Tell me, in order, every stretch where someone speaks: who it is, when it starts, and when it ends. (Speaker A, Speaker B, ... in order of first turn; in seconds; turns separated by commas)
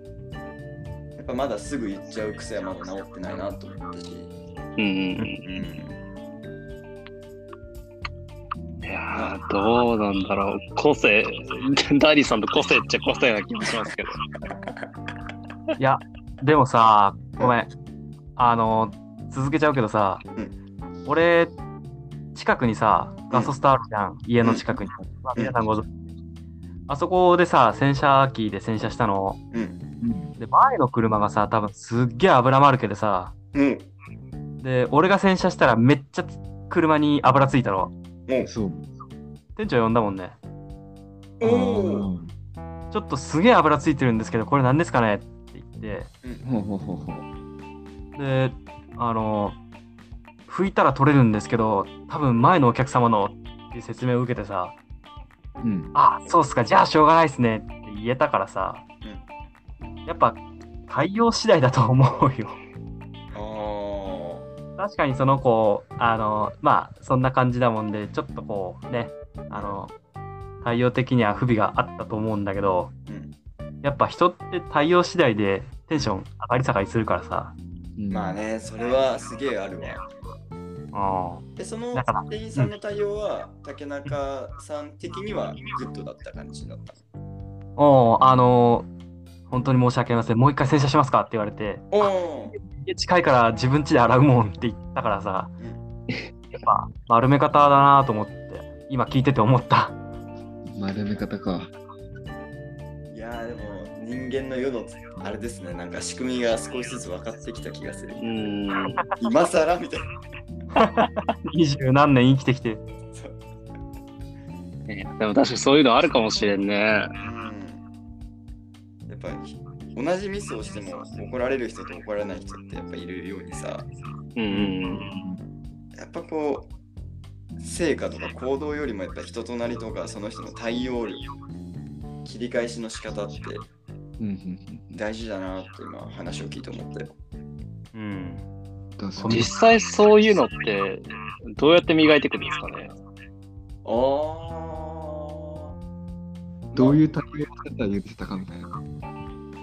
Speaker A: 1.2-4.3, Speaker B: 4.8-5.4, Speaker A: 5.4-6.0, Speaker B: 8.8-14.2, Speaker A: 9.1-9.4, Speaker C: 15.8-17.7, Speaker C: 18.4-20.2, Speaker C: 21.1-21.5, Speaker C: 22.4-25.9, Speaker A: 24.4-24.7, Speaker C: 26.9-29.4, Speaker A: 29.5-29.8, Speaker D: 30.0-30.3, Speaker C: 30.4-33.3, Speaker A: 33.5-33.9, Speaker C: 34.6-37.9, Speaker D: 38.4-38.9, Speaker C: 39.6-40.4, Speaker A: 41.4-42.1, Speaker D: 41.4-42.3, Speaker C: 42.9-46.1, Speaker D: 46.4-47.3, Speaker C: 48.2-49.6, Speaker C: 50.5-54.8, Speaker D: 55.6-55.9, Speaker C: 55.9-58.9, Speaker C: 60.1-62.6, Speaker A: 63.3-64.5, Speaker C: 64.8-69.9, Speaker A: 69.5-69.8, Speaker C: 70.6-72.9, Speaker A: 73.1-73.3, Speaker C: 73.8-77.5, Speaker D: 78.0-78.4, Speaker A: 78.1-80.1, Speaker C: 80.9-82.2, Speaker A: 81.6-87.0, Speaker C: 87.8-88.9, Speaker C: 89.5-95.5, Speaker A: 91.9-92.6, Speaker A: 95.6-95.8, Speaker C: 96.5-100.0, Speaker D: 100.7-101.7, Speaker A: 103.1-108.2, Speaker B: 108.2-109.1, Speaker A: 109.2-110.1, Speaker C: 110.8-112.8, Speaker B: 114.9-117.1, Speaker A: 117.2-117.8, Speaker A: 119.1-123.9, Speaker B: 124.4-125.1, Speaker D: 124.5-125.4, Speaker A: 126.0-126.7, Speaker A: 127.6-131.3, Speaker A: 132.2-133.7, Speaker D: 134.2-135.0, Speaker A: 134.9-137.2, Speaker C: 137.9-138.4, Speaker D: 139.0-139.5, Speaker C: 139.2-139.5, Speaker B: 139.3-142.9, Speaker A: 143.8-145.7, Speaker A: 146.7-147.0, Speaker D: 146.7-148.8